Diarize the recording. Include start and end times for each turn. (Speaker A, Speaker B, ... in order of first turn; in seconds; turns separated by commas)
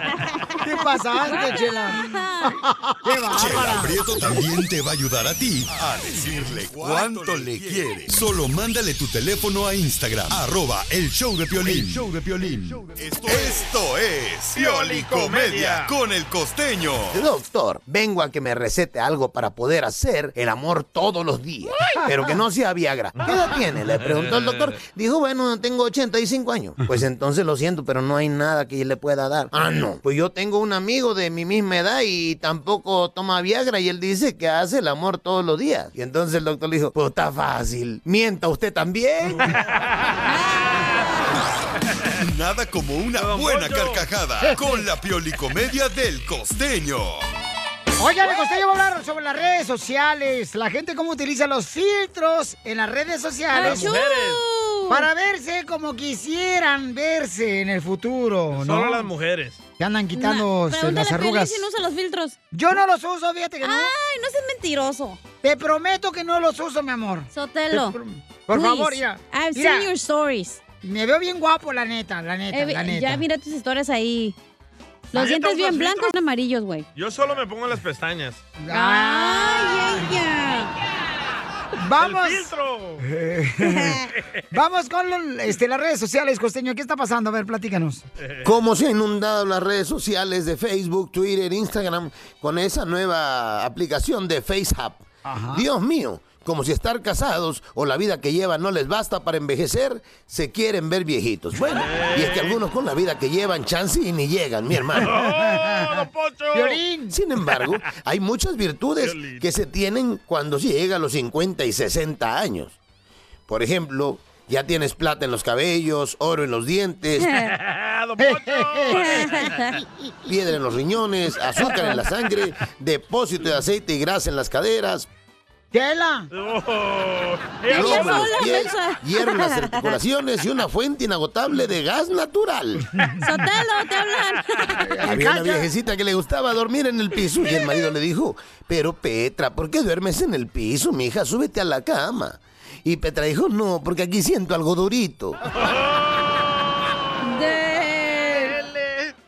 Speaker A: 0.6-4.0, Speaker B: 1.2-2.5, Speaker C: 3.3-17.3, Speaker D: 13.3-13.6, Speaker D: 14.6-15.9, Speaker E: 17.1-39.6, Speaker D: 24.0-24.7, Speaker B: 40.2-41.1, Speaker C: 42.1-47.2, Speaker D: 43.1-44.0, Speaker A: 44.4-44.8, Speaker A: 48.0-53.9, Speaker B: 53.5-55.1, Speaker D: 53.6-54.4, Speaker A: 54.9-59.1, Speaker D: 58.5-59.6, Speaker A: 59.8-61.7, Speaker B: 60.1-62.4, Speaker A: 62.5-63.9, Speaker B: 63.6-65.2, Speaker A: 65.4-69.9, Speaker B: 67.3-68.0, Speaker B: 68.5-70.6, Speaker A: 70.8-73.2, Speaker B: 72.5-74.4, Speaker B: 75.1-76.9, Speaker D: 75.1-76.1, Speaker D: 77.0-78.4, Speaker A: 78.6-80.1, Speaker B: 78.7-80.7, Speaker A: 81.8-82.5, Speaker D: 82.0-83.1, Speaker A: 83.0-88.0, Speaker B: 83.7-84.1, Speaker E: 88.5-105.2, Speaker A: 95.2-95.6, Speaker D: 101.7-102.6, Speaker D: 104.9-106.8, Speaker A: 105.2-106.0, Speaker A: 106.5-107.1, Speaker E: 107.1-112.8, Speaker D: 109.0-109.5, Speaker E: 113.5-117.4, Speaker D: 117.5-119.6, Speaker A: 118.2-119.3, Speaker B: 118.9-119.8, Speaker E: 120.3-125.1, Speaker B: 121.6-122.0, Speaker A: 125.7-126.3, Speaker D: 126.3-128.3, Speaker B: 127.7-130.0, Speaker E: 127.7-133.1, Speaker B: 133.2-134.9, Speaker A: 134.8-135.7, Speaker E: 135.0-145.4, Speaker D: 145.6-146.1, Speaker B: 147.2-148.6, Speaker D: 148.3-149.1